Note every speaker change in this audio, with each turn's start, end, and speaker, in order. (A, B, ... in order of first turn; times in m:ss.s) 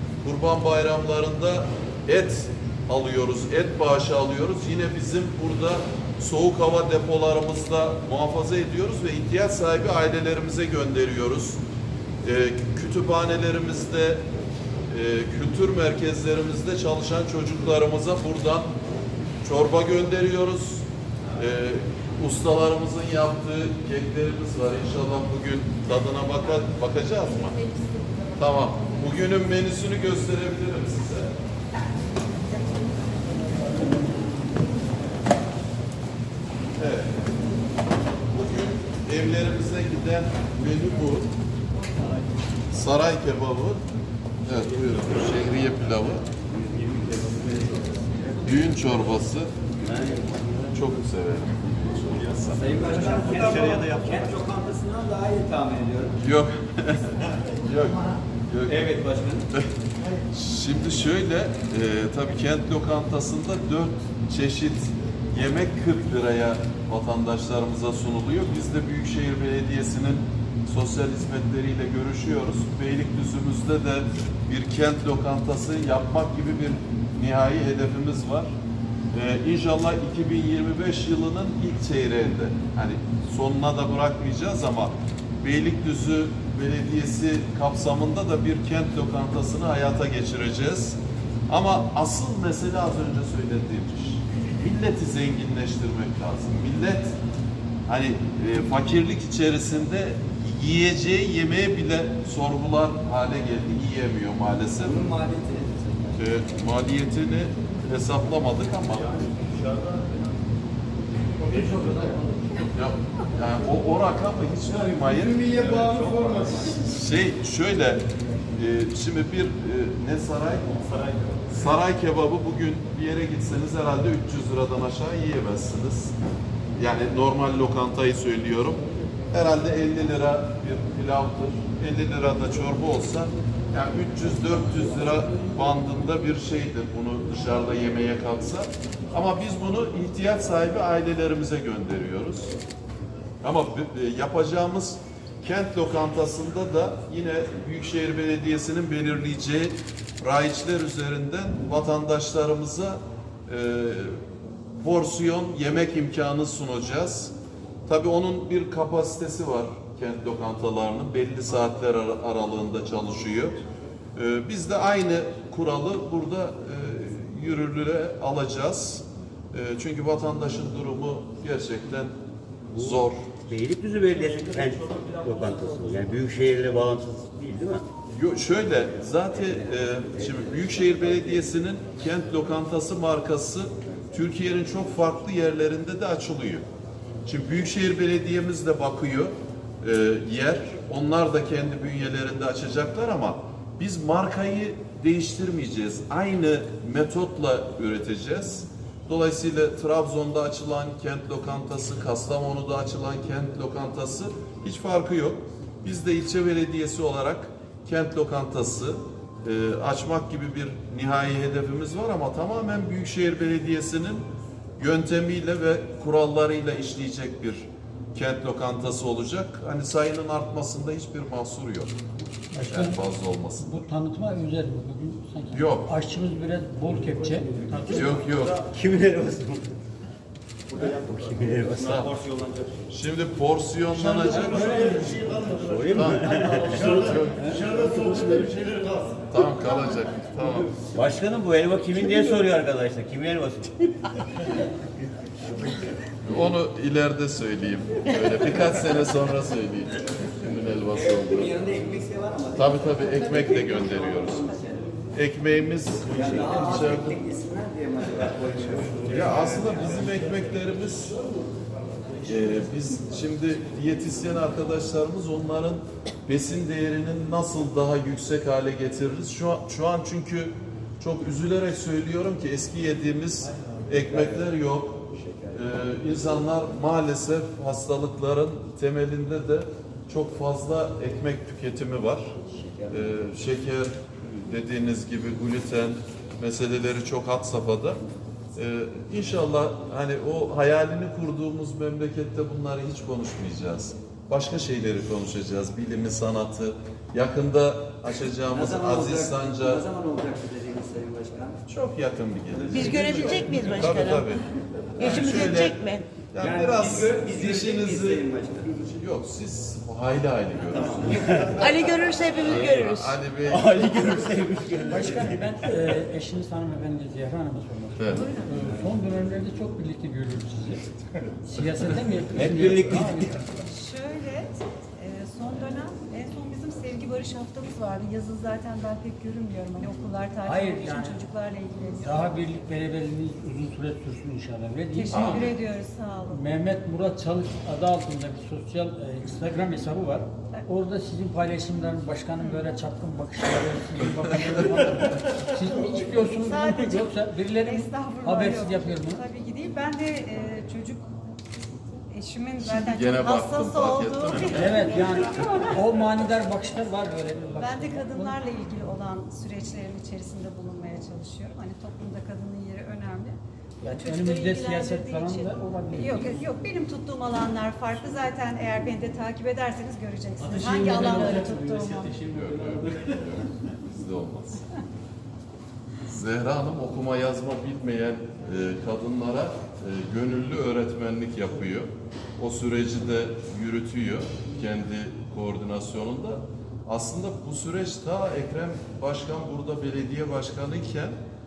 0:00.2-0:11.6 A
0:12.2-0:14.2 A
0:14.9-0:18.7 A
0:19.4-0:27.6 A
0:28.4-0:31.3 A
0:36.8-0:37.3 A
0:38.3-0:41.3 A
0:42.7-0:43.8 A
0:44.4-0:46.2 A
0:48.4-0:49.5 A
0:50.7-0:53.8 A
0:52.5-0:56.2 B
0:56.2-0:58.8 A
0:58.7-0:59.4 B
1:00.3-1:18.6 A
1:19.1-1:37.2 A
1:37.9-1:45.0 A
1:44.8-1:46.2 B
1:46.2-1:49.5 A
1:49.6-1:50.0 B
1:52.7-1:55.5 A
1:55.5-1:56.7 B
1:56.7-1:58.0 A
1:58.6-2:00.8 A
2:01.5-2:06.2 A
2:06.8-2:22.6 A
2:23.4-2:34.2 A
2:34.8-2:37.3 A
2:37.9-2:43.6 A
2:44.2-2:52.2 A
2:52.7-2:53.3 A
2:53.4-2:57.8 C
2:58.1-3:06.7 A
3:07.3-3:34.2 A
3:34.8-3:41.9 A
3:42.5-3:43.0 D
3:42.7-3:43.8 A
3:43.6-3:48.2 D
3:45.5-3:45.9 A
3:47.9-3:48.6 A
3:48.4-3:49.8 C
3:50.8-3:52.1 C
3:51.8-3:52.2 A
3:52.3-3:52.6 B
3:52.9-3:55.0 A
3:54.8-3:58.6 C
3:55.9-3:57.5 A
3:59.3-4:00.8 A
4:00.9-4:04.1 C
4:06.2-4:11.6 A
4:10.9-4:14.9 B
4:12.6-4:14.5 A
4:15.1-4:17.2 A
4:16.1-4:19.9 B
4:19.1-4:21.2 A
4:22.2-4:42.3 A
4:42.9-4:48.0 A
4:48.6-4:59.9 A
4:58.5-5:01.6 B
5:01.7-5:08.3 A
5:02.7-5:04.3 E
5:05.0-5:06.0 E
5:06.4-5:08.8 B
5:08.9-5:11.5 A
5:11.6-5:13.1 E
5:12.3-5:14.3 A
5:13.5-5:15.3 C
5:14.8-5:20.8 D
5:18.0-5:18.3 A
5:18.1-5:18.6 F
5:21.4-5:23.4 D
5:22.3-5:23.4 C
5:23.7-5:32.3 F
5:30.4-5:31.2 D
5:32.0-5:35.4 D
5:34.9-5:36.4 F
5:35.1-5:35.5 A
5:36.3-5:49.2 D
5:42.4-5:42.6 F
5:46.3-5:51.1 F
5:52.1-5:55.7 F
5:52.6-5:54.7 A
5:54.5-5:58.4 D
5:57.6-6:12.3 F
6:03.8-6:06.5 D
6:10.6-6:11.5 D
6:12.3-6:14.6 A
6:16.0-6:31.2 A